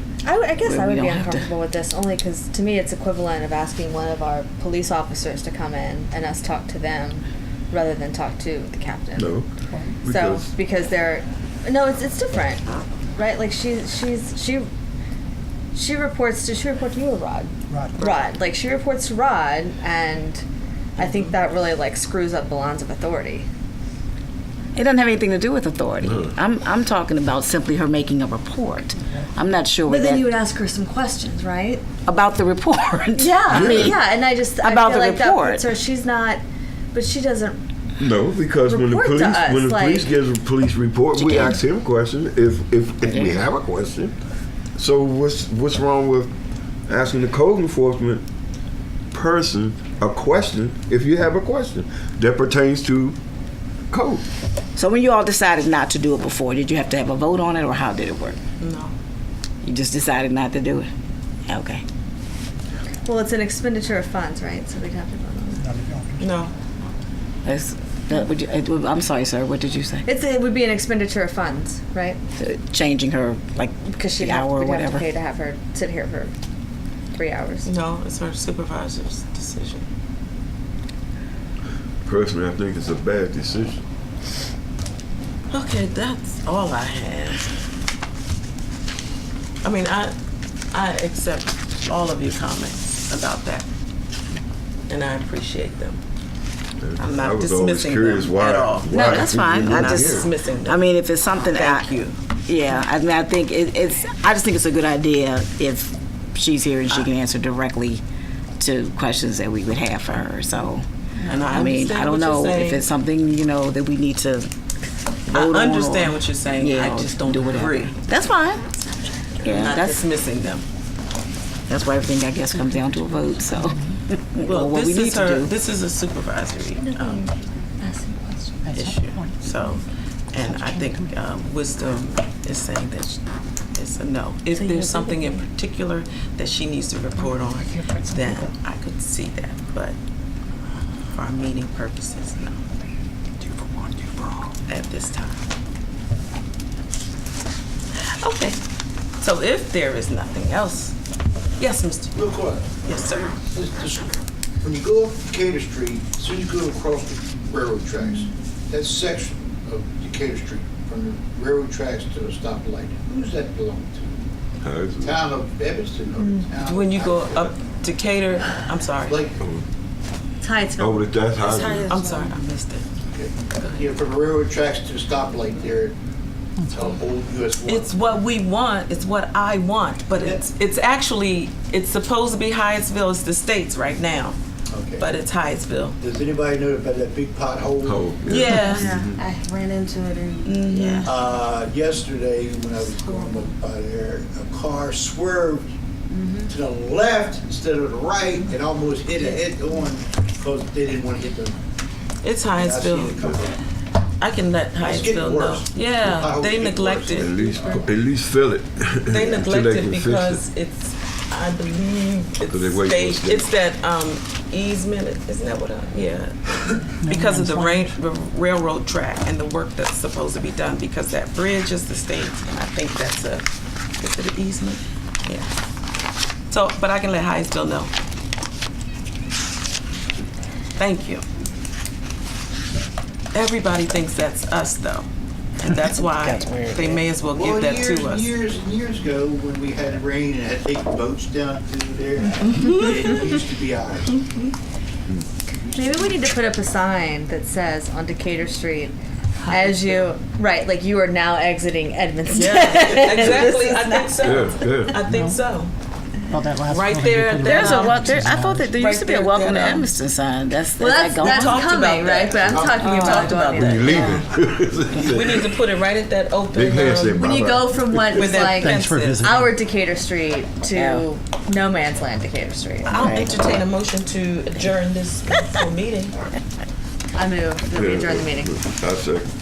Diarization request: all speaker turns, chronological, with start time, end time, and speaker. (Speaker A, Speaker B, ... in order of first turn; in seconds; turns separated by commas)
Speaker A: 0.2-9.3, Speaker B: 0.6-1.5, Speaker C: 9.2-9.5, Speaker C: 10.0-10.5, Speaker A: 10.1-14.7, Speaker A: 15.7-20.4, Speaker D: 21.0-21.5, Speaker A: 21.0-23.5, Speaker B: 24.8-30.3, Speaker C: 26.0-26.3, Speaker A: 29.9-31.8, Speaker B: 32.0-34.0, Speaker A: 33.1-36.4, Speaker C: 33.5-34.0, Speaker B: 34.6-35.7, Speaker A: 36.9-37.6, Speaker C: 38.0-44.2, Speaker A: 38.7-40.1, Speaker B: 41.1-41.6, Speaker C: 44.8-46.3, Speaker C: 46.9-48.2, Speaker C: 49.1-53.2, Speaker C: 53.9-54.2, Speaker B: 54.8-58.4, Speaker D: 58.6-58.9, Speaker B: 59.6-60.9, Speaker B: 61.5-61.8, Speaker A: 63.0-65.7, Speaker E: 65.6-66.2, Speaker D: 66.2-66.5, Speaker B: 67.5-70.1, Speaker A: 70.1-72.2, Speaker B: 72.4-75.0, Speaker A: 73.9-76.3, Speaker A: 77.1-77.7, Speaker D: 77.7-79.9, Speaker C: 82.0-83.8, Speaker D: 85.5-87.5, Speaker D: 89.6-90.2, Speaker D: 90.7-93.7, Speaker D: 94.9-96.0, Speaker C: 96.8-100.3, Speaker D: 97.0-100.9, Speaker B: 98.9-101.9, Speaker A: 98.9-99.3, Speaker D: 101.5-102.2, Speaker B: 102.5-108.0, Speaker B: 108.6-110.8, Speaker D: 111.3-112.9, Speaker B: 111.5-114.5, Speaker D: 115.3-118.0, Speaker B: 115.3-118.7, Speaker D: 119.4-120.7, Speaker B: 119.4-120.0, Speaker B: 121.7-125.5, Speaker D: 124.4-127.3, Speaker A: 126.8-128.6, Speaker E: 128.6-129.1, Speaker D: 128.7-133.2, Speaker D: 133.8-140.0, Speaker D: 141.1-142.6, Speaker D: 144.7-145.4, Speaker D: 148.0-148.6, Speaker D: 149.2-150.9, Speaker D: 151.6-152.2, Speaker F: 152.2-152.8, Speaker D: 152.8-153.4, Speaker F: 153.4-164.2, Speaker C: 164.6-165.2, Speaker F: 165.0-167.6, Speaker A: 166.2-166.5, Speaker D: 166.6-169.2, Speaker F: 169.1-169.4, Speaker C: 169.4-169.7, Speaker A: 170.4-172.3, Speaker C: 170.8-172.0, Speaker D: 171.6-172.8, Speaker F: 173.1-176.0, Speaker D: 173.6-173.9, Speaker F: 176.7-177.9, Speaker D: 177.6-184.4, Speaker F: 180.1-180.4, Speaker F: 184.7-185.1, Speaker D: 185.0-186.0, Speaker F: 186.0-188.1, Speaker C: 187.8-189.2, Speaker D: 188.3-188.9, Speaker A: 188.7-191.1, Speaker D: 190.4-191.1, Speaker F: 191.0-195.7, Speaker F: 196.5-201.6, Speaker D: 202.2-203.2, Speaker F: 202.5-203.6, Speaker D: 204.2-207.5, Speaker F: 204.8-207.9, Speaker C: 207.1-210.4, Speaker D: 209.1-223.4, Speaker C: 212.5-213.5, Speaker E: 217.0-217.9, Speaker D: 224.0-225.5, Speaker D: 226.5-227.9, Speaker D: 230.8-231.2, Speaker D: 233.3-235.1, Speaker D: 235.6-238.4, Speaker B: 236.2-237.0, Speaker F: 237.3-244.2, Speaker D: 242.4-243.2, Speaker A: 245.7-249.0, Speaker A: 249.5-254.3, Speaker D: 249.5-249.9, Speaker D: 252.3-255.7, Speaker C: 254.2-255.0, Speaker E: 255.1-255.4, Speaker E: 256.3-258.7, Speaker D: 256.6-259.9, Speaker B: 257.4-261.7, Speaker A: 260.8-264.2, Speaker D: 261.2-264.2, Speaker B: 262.8-263.4, Speaker C: 263.3-265.6, Speaker D: 264.9-267.1, Speaker C: 266.5-268.4, Speaker A: 267.1-273.3, Speaker D: 268.1-269.4, Speaker E: 268.5-269.5, Speaker B: 270.8-271.1, Speaker D: 272.9-276.2, Speaker B: 272.9-273.3, Speaker A: 277.1-278.5, Speaker C: 277.7-279.3